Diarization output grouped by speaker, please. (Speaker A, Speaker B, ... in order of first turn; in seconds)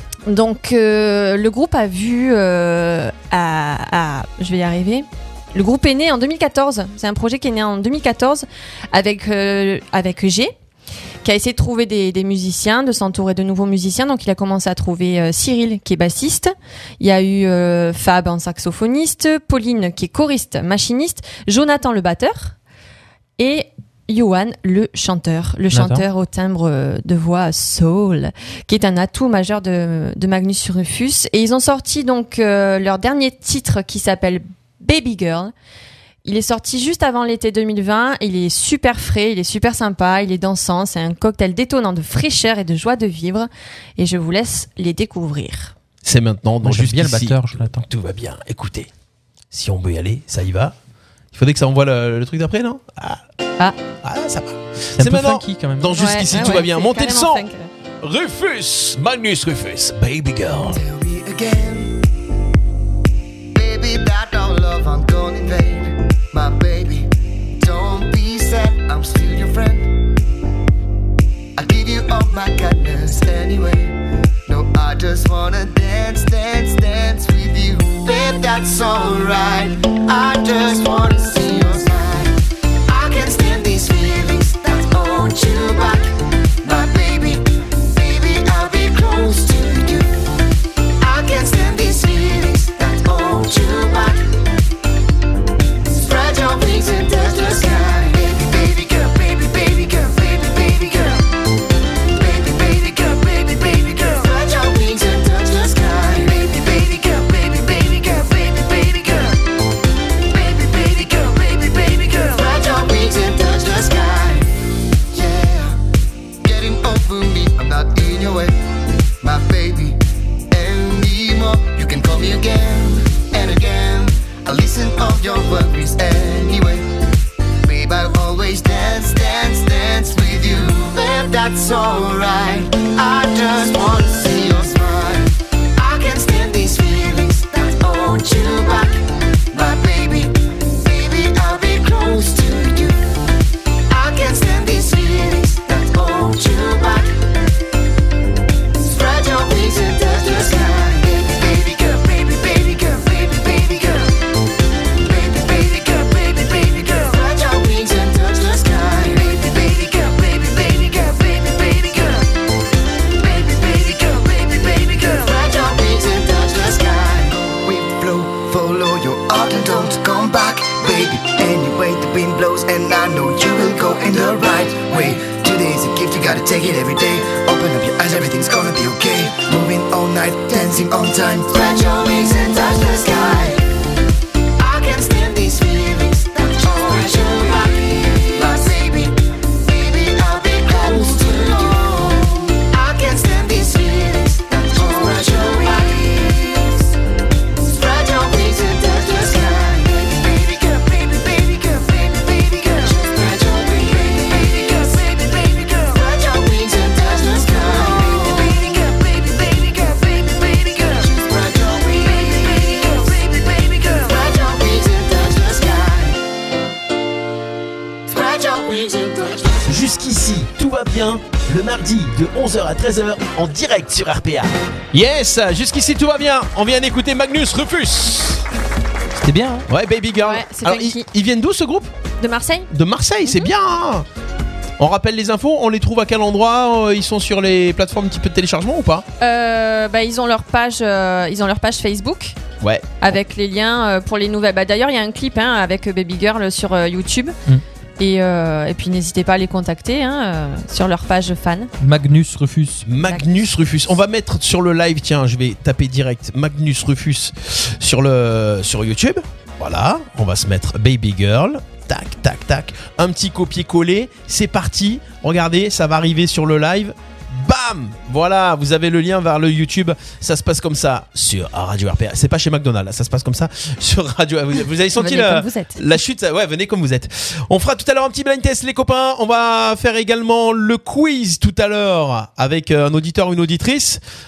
Speaker A: 0.3-10.5, 11.2-22.6, 23.4-35.5, 36.2-45.7, 55.9-57.7, 230.2-231.1, 232.2-232.7, 239.2-242.3, 243.0-247.3, 248.0-251.7, 253.0-253.3, 274.9-276.0
Speaker B: 25.7-26.1, 46.6-47.9, 55.0-56.0, 229.2-229.7, 251.8-252.9
Speaker C: 46.0-48.9, 49.5-50.7, 51.3-53.2, 54.0-57.5, 58.0-60.7, 224.9-228.4, 229.7-231.9, 232.7-234.1, 234.8-239.0, 242.6-243.1, 252.8-284.0
Speaker D: 60.2-60.6, 219.7-224.5
Speaker E: 60.7-62.0, 63.5-70.0, 71.6-86.1, 86.6-90.2, 91.0-94.3, 95.8-101.2, 102.1-109.5, 110.3-114.5, 115.1-115.8, 116.4-118.6, 119.2-127.0, 127.6-138.9, 139.5-143.1, 143.9-147.2, 148.8-154.2, 154.9-162.3, 163.2-183.6, 184.6-196.8, 197.6-216.2, 218.1-219.7